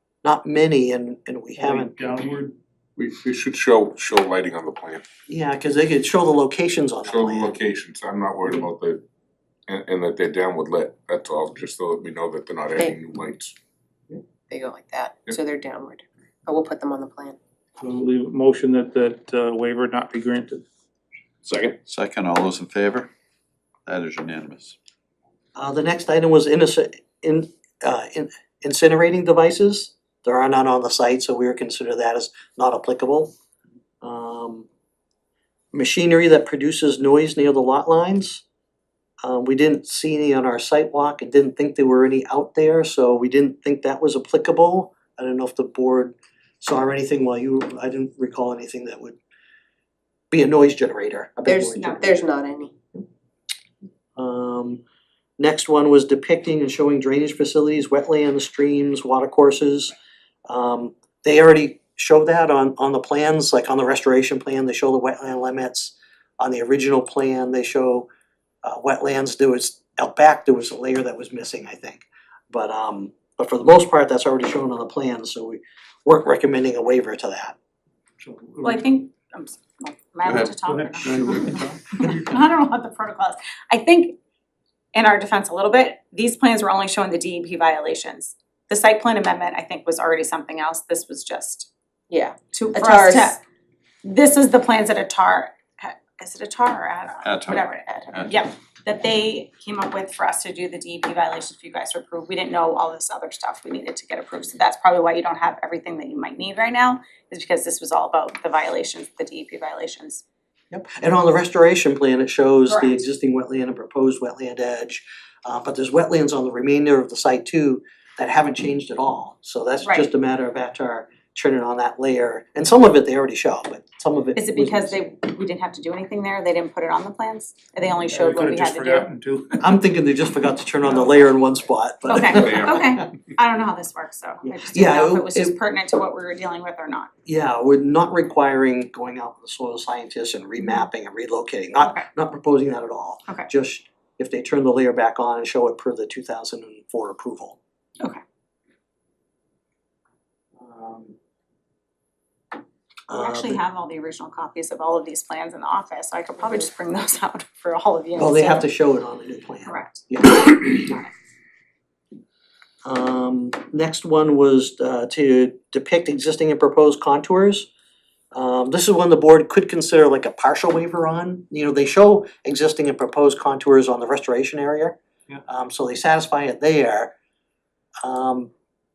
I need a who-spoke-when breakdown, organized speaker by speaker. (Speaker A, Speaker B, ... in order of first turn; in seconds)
Speaker A: 0.2-1.9, 5.3-7.5, 25.6-33.3, 34.0-34.7, 35.7-38.4, 39.2-49.2, 50.3-52.2, 54.2-54.8, 55.4-59.9, 60.5-68.1, 68.6-77.5, 110.7-125.0, 129.6-132.9, 134.4-135.5, 137.2-147.6, 150.6-151.2, 153.1-153.6, 158.2-161.0, 162.8-167.7, 168.3-177.1, 178.0-178.5
Speaker B: 1.6-2.5, 17.8-20.6, 78.2-78.8, 80.7-82.1, 128.1-129.7
Speaker C: 3.0-5.0, 7.0-9.0, 9.7-13.5, 21.4-21.8, 132.3-133.0
Speaker D: 14.5-17.4, 51.5-52.7, 92.1-93.4
Speaker E: 21.9-23.1, 23.9-24.8, 80.2-80.5, 97.2-98.4
Speaker F: 78.6-81.4, 82.0-84.2, 84.9-91.7, 92.5-93.4, 94.0-110.2, 112.7-113.0, 119.8-120.1, 124.3-129.1, 132.1-137.1, 153.1-158.7, 159.7-160.1, 160.7-161.1